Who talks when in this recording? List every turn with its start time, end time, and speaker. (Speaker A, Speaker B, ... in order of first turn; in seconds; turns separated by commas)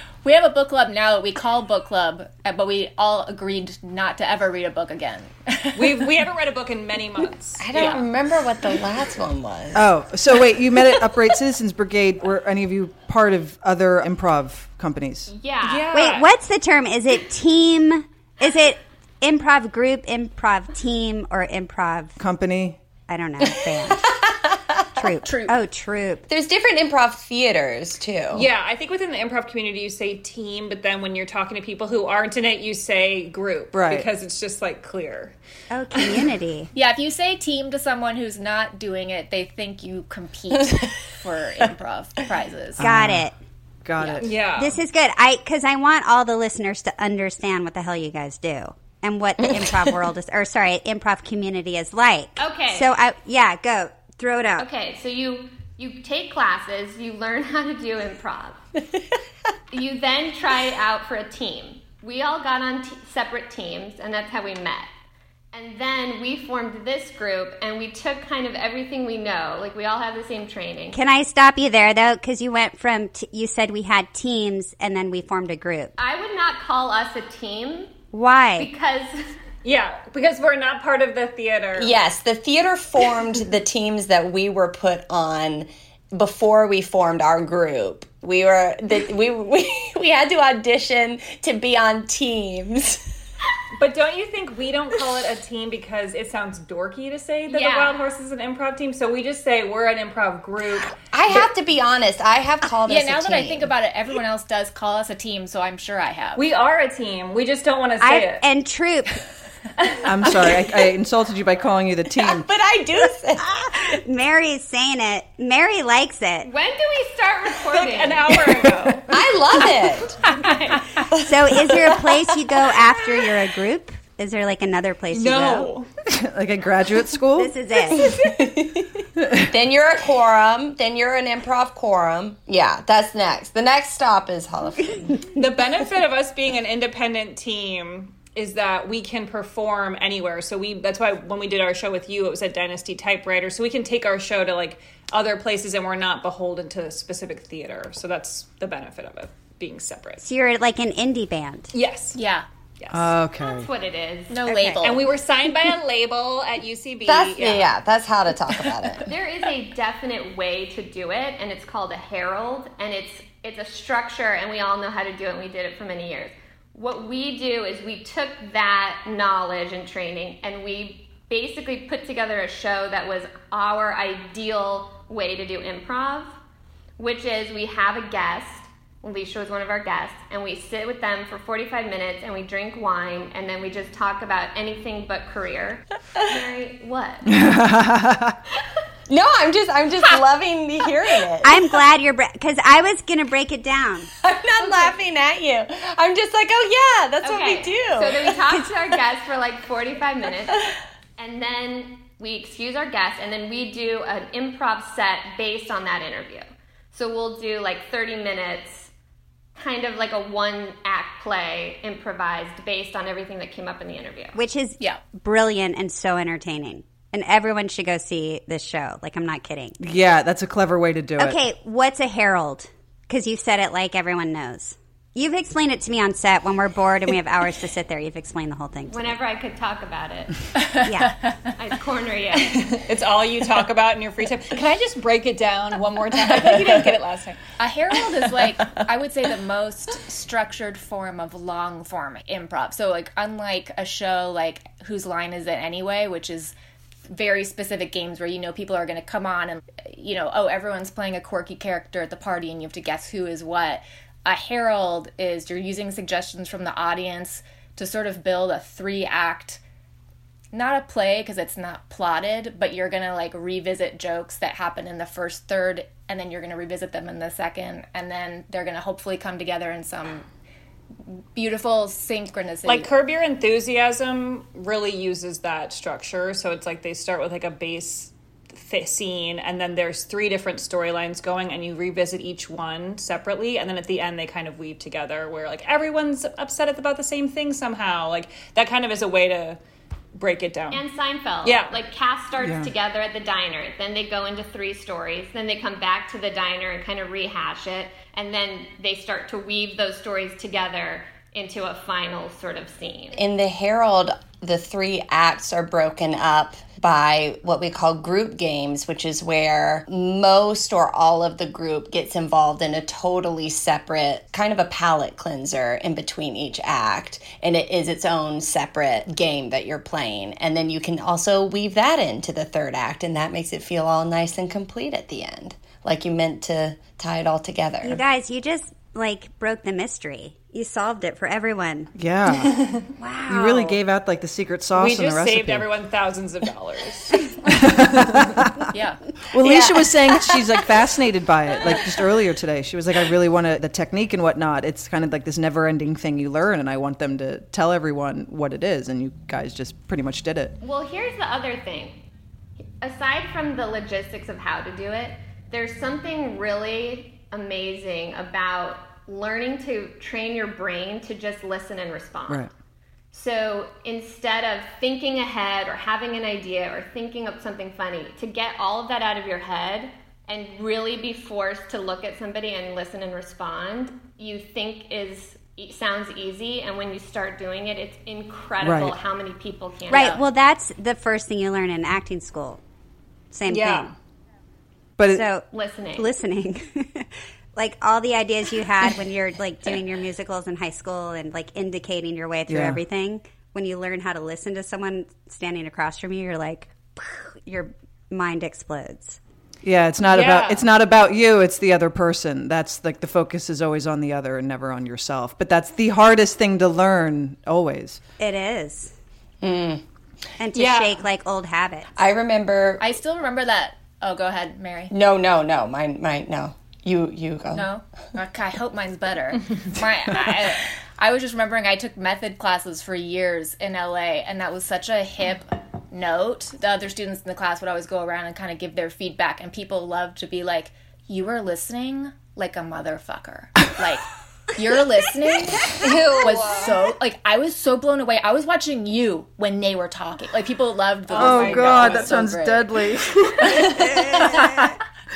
Speaker A: 0.2-6.1, Speaker B: 5.8-8.0, Speaker C: 7.6-9.9, Speaker D: 9.7-15.3, Speaker E: 15.3-15.9, Speaker B: 15.6-16.3, Speaker F: 15.9-22.2, Speaker D: 22.2-22.8, Speaker F: 23.1-24.1, Speaker C: 23.4-25.0, Speaker F: 24.9-26.2, Speaker A: 25.2-25.6, Speaker C: 26.3-28.5, Speaker B: 28.3-35.4, Speaker D: 33.7-34.1, Speaker F: 35.7-36.7, Speaker A: 36.8-42.8, Speaker D: 42.8-43.3, Speaker F: 42.8-43.4, Speaker D: 43.8-44.4, Speaker A: 44.0-44.2, Speaker B: 44.2-44.8, Speaker F: 44.6-54.7, Speaker C: 49.4-50.0, Speaker E: 52.4-52.9, Speaker E: 54.6-58.6, Speaker E: 59.7-64.9, Speaker E: 65.5-71.0, Speaker F: 70.9-75.9, Speaker E: 76.0-77.9, Speaker F: 78.1-78.7, Speaker E: 78.6-79.3, Speaker B: 79.6-81.9, Speaker C: 81.8-93.0, Speaker B: 93.8-101.0, Speaker E: 97.5-98.0, Speaker C: 101.1-103.7, Speaker A: 102.8-106.4, Speaker B: 106.3-108.4, Speaker F: 108.0-109.2, Speaker D: 110.0-112.5, Speaker C: 112.2-113.5, Speaker F: 113.6-116.5, Speaker E: 116.4-118.5, Speaker B: 117.6-119.1, Speaker C: 119.1-120.2, Speaker E: 120.1-121.1, Speaker C: 121.1-122.2, Speaker F: 121.2-125.7, Speaker B: 125.1-125.9, Speaker D: 126.1-127.5, Speaker F: 127.3-128.1, Speaker C: 128.0-135.3, Speaker D: 129.2-129.5, Speaker B: 135.3-150.2, Speaker F: 150.2-151.7, Speaker B: 151.7-152.2, Speaker A: 152.1-152.4, Speaker B: 152.8-153.1, Speaker D: 152.9-153.7, Speaker E: 153.4-154.4, Speaker A: 154.3-155.0, Speaker F: 154.4-154.8, Speaker B: 154.8-157.7, Speaker C: 157.1-159.1, Speaker E: 159.1-176.4, Speaker E: 177.0-187.3, Speaker D: 187.2-188.4, Speaker C: 189.1-191.6, Speaker E: 190.8-191.2, Speaker F: 191.4-194.1, Speaker C: 194.2-198.5, Speaker E: 194.6-194.9, Speaker E: 197.2-208.9, Speaker E: 209.6-214.3, Speaker F: 214.3-219.8, Speaker D: 219.8-221.4, Speaker F: 221.2-229.2, Speaker E: 228.9-230.4, Speaker A: 230.6-231.4, Speaker F: 230.8-231.2, Speaker E: 231.6-232.8, Speaker B: 232.3-237.4, Speaker A: 237.6-246.5, Speaker A: 247.1-259.6, Speaker A: 260.5-270.2, Speaker A: 271.3-272.9, Speaker B: 272.6-289.6, Speaker B: 290.1-290.8, Speaker E: 290.7-303.2, Speaker B: 291.4-291.8, Speaker D: 292.4-292.7, Speaker C: 303.1-328.0, Speaker F: 327.8-331.9, Speaker D: 331.9-332.7, Speaker B: 332.4-332.8, Speaker F: 333.0-333.8, Speaker D: 333.3-335.7, Speaker B: 334.8-337.3, Speaker D: 337.4-338.7, Speaker A: 338.7-339.1, Speaker D: 339.3-350.6, Speaker E: 350.6-352.0, Speaker E: 352.8-362.5, Speaker E: 363.1-380.2, Speaker D: 378.6-379.0, Speaker F: 379.9-382.6, Speaker F: 383.3-383.9, Speaker B: 383.5-383.9, Speaker D: 385.0-385.2, Speaker F: 385.1-399.2, Speaker E: 385.5-386.1, Speaker D: 392.5-392.8, Speaker D: 399.6-408.0, Speaker B: 400.1-400.6, Speaker F: 408.2-408.9, Speaker C: 409.4-409.8, Speaker F: 410.4-411.9, Speaker B: 410.5-411.0, Speaker C: 411.9-412.9, Speaker A: 412.8-414.9, Speaker C: 414.9-417.7, Speaker A: 417.5-442.7, Speaker B: 435.7-436.9, Speaker B: 441.1-442.1, Speaker D: 441.1-444.8, Speaker A: 443.5-444.6, Speaker B: 443.7-444.2